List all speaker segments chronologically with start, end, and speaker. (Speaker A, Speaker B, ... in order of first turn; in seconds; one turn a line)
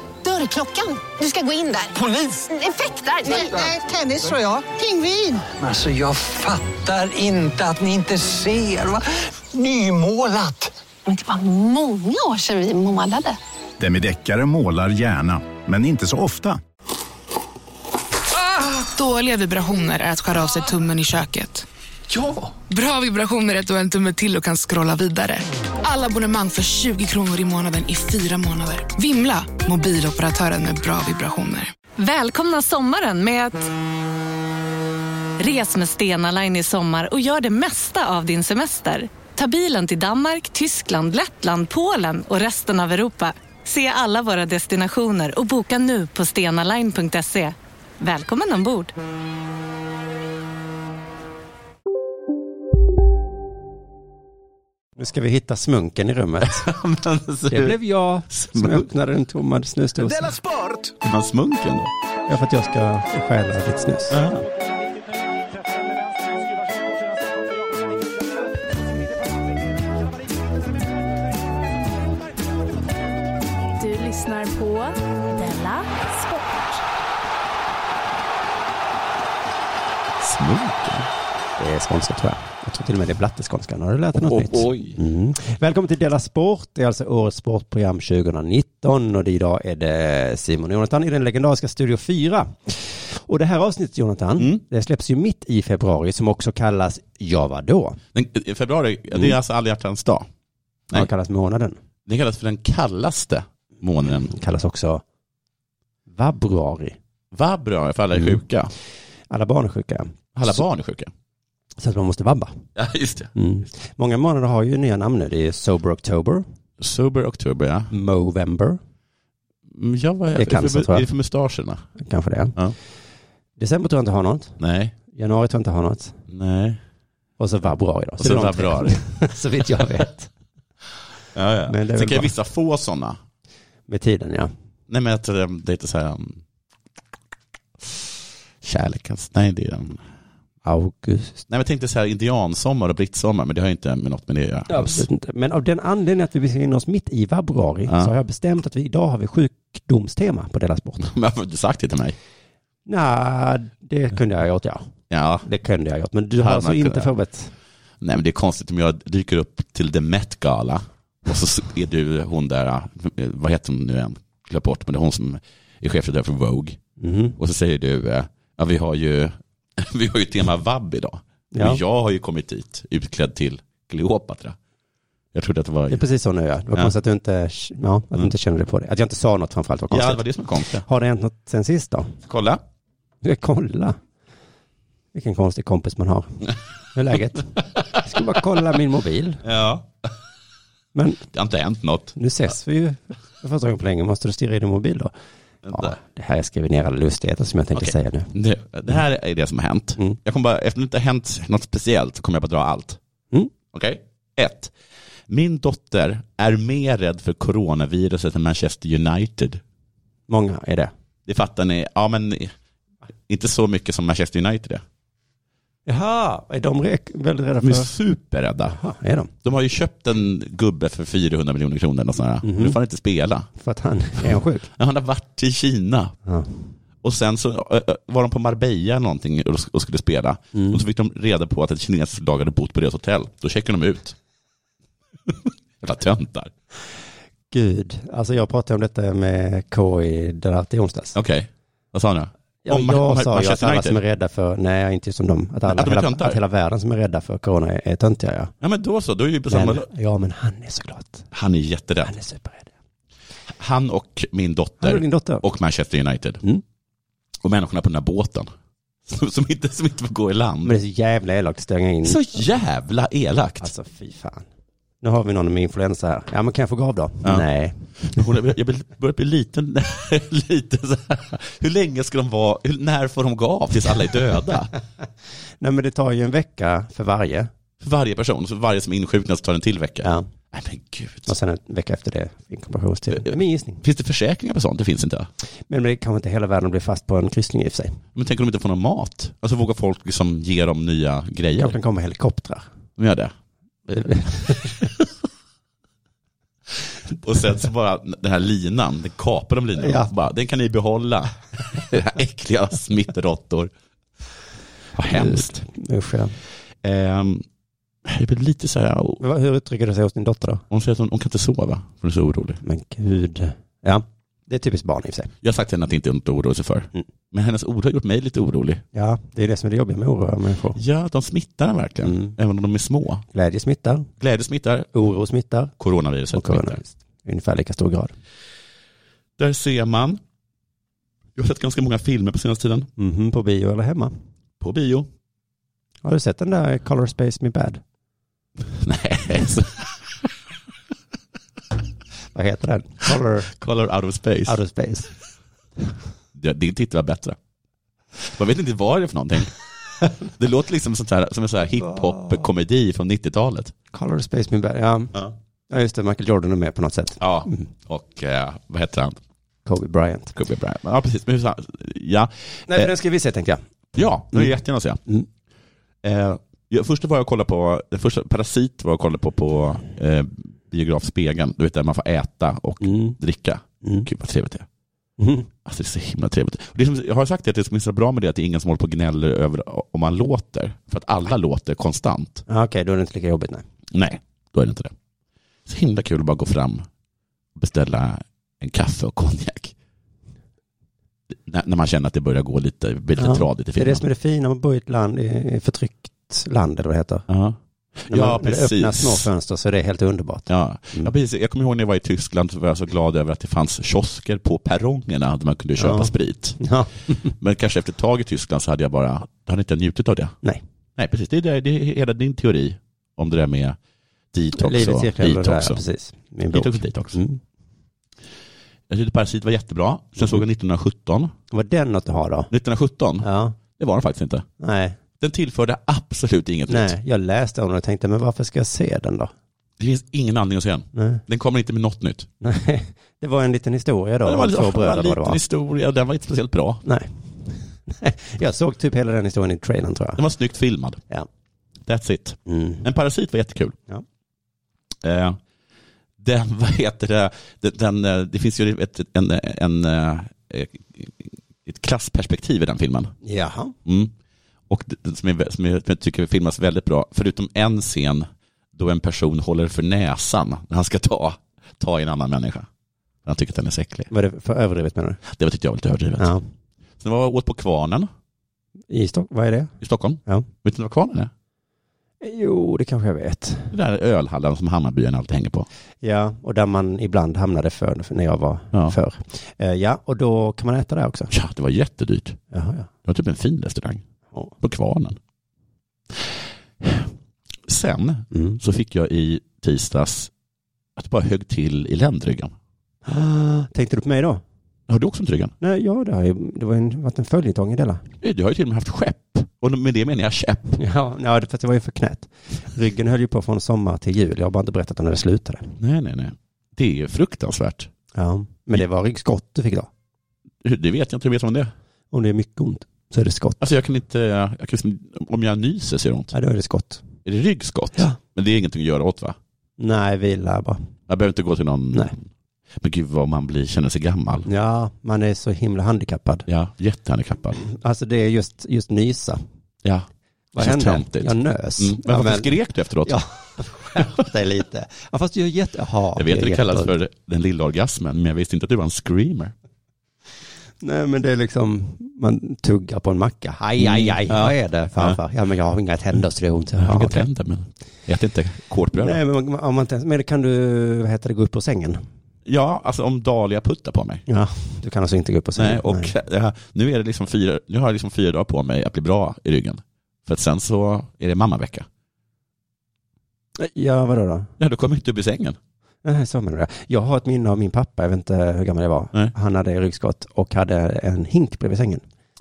Speaker A: 0.2-5.3
Speaker B: 3.2-10.7
Speaker A: 11.1-13.4
Speaker C: 13.8-16.6
Speaker D: 18.9-21.6
Speaker B: 22.1-22.4
Speaker D: 22.7-31.7
Speaker E: 32.0-33.7
Speaker E: 35.4-48.9
Speaker F: 55.0-56.7
Speaker G: 56.4-57.8
Speaker F: 57.5-60.3
Speaker G: 58.3-58.9
Speaker G: 60.2-61.9
Speaker F: 62.3-64.2
Speaker G: 64.1-64.4
Speaker H: 73.8-76.8
Speaker G: 80.2-81.1
Speaker F: 81.6-98.0
Speaker G: 84.2-85.0
Speaker G: 98.1-100.3
Speaker F: 100.9-101.8
Speaker G: 102.0-104.3
Speaker F: 104.1-105.0
Speaker F: 106.1-107.0
Speaker G: 107.3-108.7
Speaker F: 108.1-108.4
Speaker F: 109.3-110.2
Speaker G: 110.3-111.1
Speaker F: 111.8-112.6
Speaker G: 112.8-113.3
Speaker F: 113.3-116.4
Speaker G: 116.8-117.9
Speaker F: 117.9-118.8
Speaker G: 119.7-121.9
Speaker F: 120.3-121.1
Speaker F: 122.0-122.6
Speaker F: 123.6-126.2
Speaker G: 124.6-124.9
Speaker G: 126.3-126.8
Speaker F: 127.4-130.3
Speaker G: 128.2-129.0
Speaker G: 131.3-133.2
Speaker F: 131.7-132.3
Speaker F: 133.9-134.5
Speaker G: 134.9-136.4
Speaker G: 138.6-140.1
Speaker F: 140.6-141.4
Speaker G: 141.5-145.1
Speaker F: 144.7-151.0
Speaker G: 151.0-152.2
Speaker F: 152.8-154.9
Speaker G: 155.1-155.5
Speaker F: 155.4-157.5
Speaker G: 156.4-157.1
Speaker G: 158.0-166.8
Speaker F: 167.0-167.4
Speaker G: 167.4-174.6
Speaker F: 171.5-171.8
Speaker G: 175.3-176.0
Speaker F: 175.9-180.2
Speaker G: 179.9-180.8
Speaker F: 180.8-182.2
Speaker G: 182.2-182.6
Speaker F: 183.2-184.0
Speaker F: 185.1-189.4
Speaker G: 189.4-190.1
Speaker F: 190.9-191.2
Speaker G: 191.3-192.2
Speaker F: 192.2-195.1
Speaker G: 195.6-195.9
Speaker F: 195.7-198.3
Speaker G: 197.7-203.0
Speaker G: 203.7-204.7
Speaker G: 205.3-209.6
Speaker F: 210.3-210.9
Speaker G: 211.2-212.5
Speaker G: 213.3-214.8
Speaker F: 215.8-217.9
Speaker G: 217.6-218.8
Speaker F: 218.7-219.3
Speaker G: 219.4-223.5
Speaker F: 222.4-222.8
Speaker F: 223.6-224.7
Speaker G: 224.2-226.1
Speaker F: 226.2-226.6
Speaker G: 227.0-234.2
Speaker F: 230.5-230.8
Speaker G: 235.3-236.5
Speaker F: 237.5-241.1
Speaker G: 241.1-244.0
Speaker F: 242.6-248.5
Speaker G: 245.7-246.4
Speaker G: 248.6-249.9
Speaker F: 249.5-251.3
Speaker G: 251.3-252.1
Speaker F: 252.0-252.7
Speaker G: 253.5-256.4
Speaker F: 254.8-255.4
Speaker G: 257.4-258.5
Speaker G: 259.1-260.8
Speaker F: 260.6-262.3
Speaker G: 262.0-263.7
Speaker F: 263.6-264.4
Speaker F: 265.0-267.9
Speaker G: 268.0-274.7
Speaker F: 275.6-277.5
Speaker G: 277.8-281.3
Speaker F: 281.3-283.8
Speaker G: 283.1-285.3
Speaker F: 285.7-288.0
Speaker G: 288.1-291.8
Speaker F: 291.6-292.7
Speaker G: 293.0-293.3
Speaker F: 293.9-294.9
Speaker G: 297.2-303.7
Speaker F: 299.8-300.1
Speaker F: 305.0-306.3
Speaker G: 305.0-305.5
Speaker G: 306.8-307.4
Speaker G: 308.0-309.2
Speaker F: 309.2-310.6
Speaker G: 310.7-312.6
Speaker F: 312.6-315.3
Speaker G: 315.4-318.8
Speaker F: 318.9-320.8
Speaker G: 320.7-323.2
Speaker F: 322.0-322.3
Speaker F: 323.3-324.1
Speaker G: 324.2-324.9
Speaker F: 324.9-325.7
Speaker G: 325.8-326.8
Speaker F: 326.3-328.1
Speaker G: 329.4-330.2
Speaker G: 331.4-332.9
Speaker F: 333.0-334.1
Speaker G: 334.6-335.1
Speaker F: 336.0-337.8
Speaker G: 338.7-339.9
Speaker F: 342.3-343.5
Speaker G: 343.5-344.6
Speaker F: 344.4-345.1
Speaker G: 346.3-347.4
Speaker G: 348.2-349.5
Speaker G: 350.4-353.7
Speaker F: 351.9-352.4
Speaker F: 353.9-357.6
Speaker G: 357.2-359.2
Speaker F: 359.6-360.3
Speaker G: 360.3-362.9
Speaker F: 362.7-363.6
Speaker G: 363.9-365.0
Speaker G: 366.0-374.7
Speaker F: 372.8-373.2
Speaker F: 375.2-375.5
Speaker G: 375.6-382.4
Speaker F: 382.5-383.6
Speaker G: 383.9-384.9
Speaker G: 385.6-386.9
Speaker G: 387.6-389.7
Speaker G: 391.3-394.0
Speaker F: 393.2-397.3
Speaker G: 397.3-399.3
Speaker F: 398.1-401.1
Speaker G: 400.5-406.6
Speaker F: 405.8-407.3
Speaker G: 407.4-410.4
Speaker G: 411.0-413.8
Speaker G: 414.3-415.8
Speaker F: 414.5-417.4
Speaker G: 416.5-417.2
Speaker G: 418.9-421.3
Speaker F: 421.5-422.5
Speaker G: 422.5-424.4
Speaker F: 423.2-423.6
Speaker F: 424.6-425.0
Speaker G: 425.2-426.9
Speaker F: 426.7-429.3
Speaker G: 429.8-432.3
Speaker F: 430.9-431.2
Speaker F: 432.4-435.4
Speaker G: 434.2-436.8
Speaker F: 436.8-440.2
Speaker G: 440.2-441.0
Speaker G: 441.9-443.8
Speaker F: 442.5-442.8
Speaker G: 445.0-445.4
Speaker G: 446.2-453.1
Speaker F: 453.2-453.7
Speaker G: 453.8-454.1
Speaker G: 454.7-462.7
Speaker G: 463.2-464.1
Speaker F: 464.1-465.2
Speaker G: 465.2-466.3
Speaker F: 466.2-466.4
Speaker G: 467.0-468.1
Speaker F: 468.9-469.7
Speaker G: 469.8-471.3
Speaker F: 472.2-473.7
Speaker G: 473.7-475.7
Speaker F: 476.0-481.3
Speaker G: 481.3-482.4
Speaker F: 482.5-482.9
Speaker G: 483.0-484.0
Speaker G: 484.6-485.2
Speaker G: 486.8-487.1
Speaker G: 487.7-490.3
Speaker F: 488.3-488.6
Speaker G: 490.9-492.5
Speaker F: 493.0-494.4
Speaker G: 494.9-495.5
Speaker F: 495.6-498.0
Speaker G: 498.2-500.8
Speaker F: 500.8-505.7
Speaker G: 505.8-507.9
Speaker F: 508.1-509.9
Speaker G: 510.6-511.7
Speaker F: 512.1-513.6
Speaker G: 513.6-516.3
Speaker F: 516.3-517.0
Speaker G: 517.2-519.4
Speaker F: 519.8-520.8
Speaker G: 521.1-522.2
Speaker G: 522.8-524.5
Speaker F: 524.4-526.5
Speaker G: 526.5-527.6
Speaker F: 527.6-529.4
Speaker G: 529.8-533.2
Speaker F: 530.5-532.5
Speaker F: 533.0-537.0
Speaker G: 536.1-539.5
Speaker F: 540.8-547.2
Speaker G: 543.8-545.2
Speaker G: 546.8-549.2
Speaker F: 548.9-552.0
Speaker G: 552.4-554.2
Speaker F: 554.3-556.1
Speaker G: 555.5-561.9
Speaker F: 563.6-564.5
Speaker G: 564.6-565.6
Speaker F: 566.0-572.0